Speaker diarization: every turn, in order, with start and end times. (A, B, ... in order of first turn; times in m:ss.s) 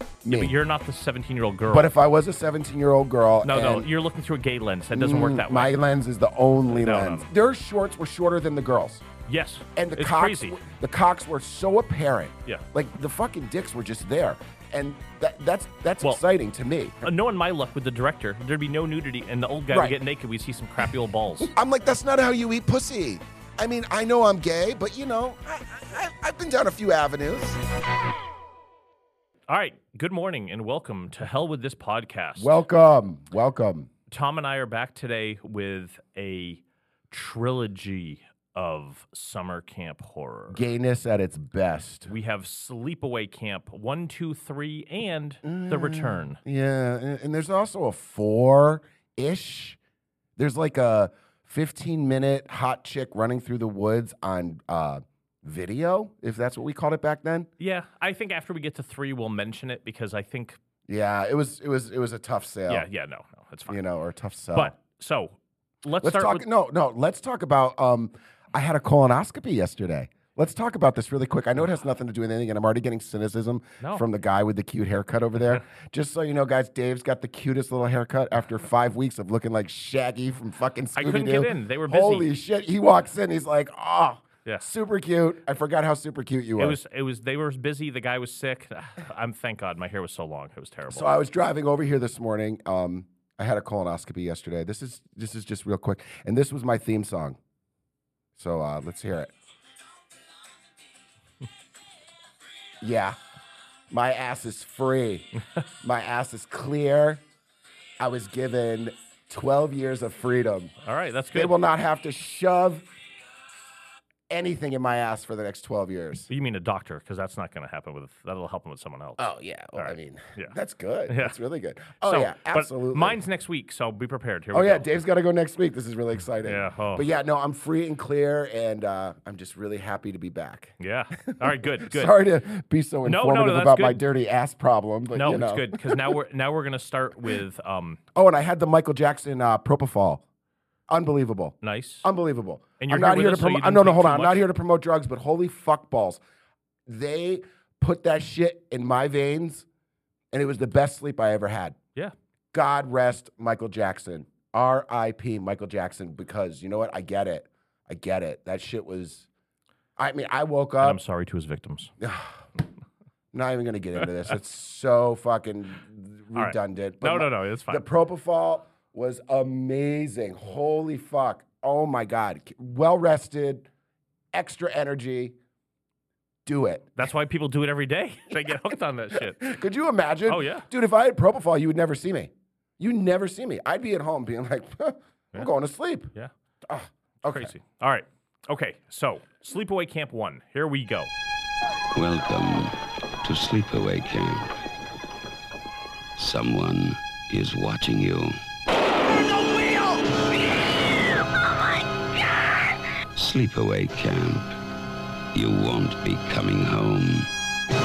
0:00.2-0:00.6 A
0:00.3-0:01.9 B
0:01.7-0:03.9 A
0:03.4-0:05.8 B
0:04.9-0:09.0 A
0:06.7-0:07.3 B
0:09.3-0:10.6 B
0:09.8-0:17.1 A
0:17.0-0:21.5 B
0:19.7-0:20.0 A
0:21.4-0:27.6 A
0:29.5-0:32.5 B
0:32.4-0:33.9 A
0:34.1-0:40.6 B
0:40.5-0:42.1 A
0:42.1-0:46.4 B
0:45.4-0:49.8 A
0:50.4-0:57.5 A
0:57.6-1:00.6 B
1:00.9-1:02.9 A
1:02.7-1:03.8 B
1:03.7-1:04.7 A
1:04.5-1:06.5 B
1:06.0-1:26.8 A
1:21.0-1:22.3 B
1:26.6-1:31.1 B
1:30.9-1:37.4 A
1:38.4-1:39.3 A
1:42.8-1:43.2 A
1:43.9-1:45.3 A
1:45.8-1:47.2 A
1:48.0-1:50.7 A
1:50.8-1:51.6 B
1:51.3-1:52.9 A
1:54.3-1:56.3 A
1:56.3-2:00.6 B
1:59.2-2:03.2 A
2:01.1-2:01.4 B
2:02.0-2:04.9 B
2:04.5-2:16.1 A
2:06.4-2:07.0 B
2:10.8-2:12.2 B
2:13.0-2:14.0 B
2:15.1-2:18.0 B
2:18.2-2:20.2 A
2:20.9-2:26.2 A
2:21.6-2:22.1 B
2:22.8-2:24.4 B
2:26.9-2:29.7 A
2:30.3-2:31.8 A
2:32.5-2:39.3 A
2:40.0-2:41.0 A
2:40.8-2:41.9 B
2:42.0-2:42.4 A
2:43.3-2:53.7 A
2:46.4-2:47.8 B
2:54.3-2:55.4 A
2:56.5-2:57.0 A
2:57.0-2:59.4 B
2:59.1-3:06.1 A
3:00.3-3:00.7 B
3:06.7-3:07.5 A
3:07.3-3:11.1 B
3:12.0-3:14.5 C
3:16.2-3:18.4 C
3:23.2-3:24.5 C
3:25.3-3:27.3 C